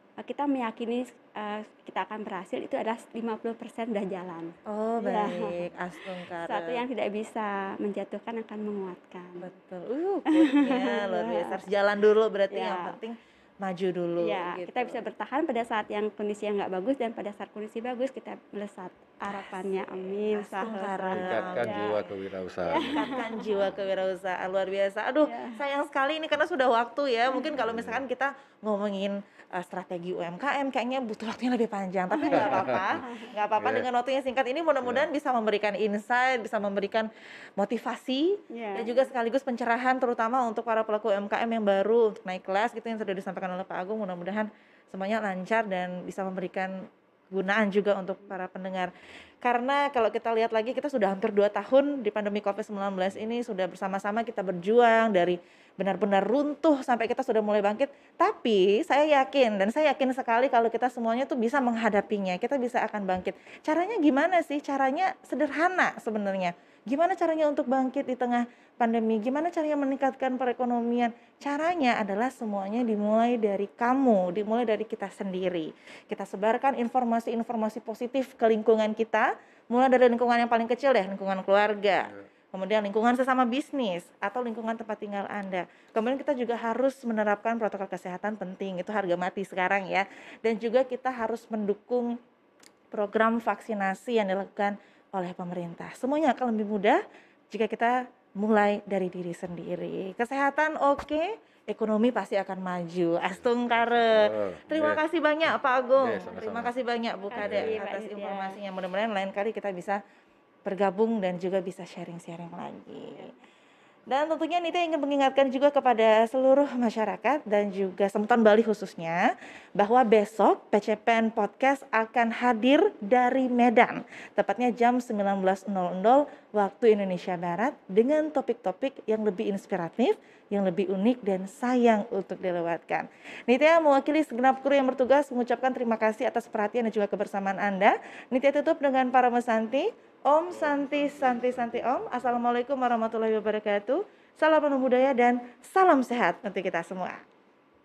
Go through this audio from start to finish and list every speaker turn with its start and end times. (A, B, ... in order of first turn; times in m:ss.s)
0:00.2-0:09.5 A
0:04.7-0:06.8 B
0:09.4-0:15.0 B
0:10.3-0:11.6 A
0:12.5-0:13.0 A
0:14.2-0:22.0 A
0:19.3-0:22.1 B
0:21.1-0:23.0 C
0:22.6-0:23.5 A
0:22.7-0:46.8 B
0:25.2-0:25.6 A
0:27.5-0:28.0 C
0:32.1-0:33.3 A
0:32.3-0:33.0 C
0:33.6-0:33.8 C
0:34.8-0:35.1 C
0:38.5-0:39.1 A
0:47.3-1:32.2 B
1:32.9-1:37.0 B
1:37.5-1:50.0 B
1:43.3-1:46.7 C
1:47.2-1:48.6 A
1:47.4-1:47.7 C
1:50.6-1:53.3 B
1:53.1-1:53.4 A
1:54.1-1:59.2 B
1:59.8-2:27.2 B
2:20.5-2:22.4 C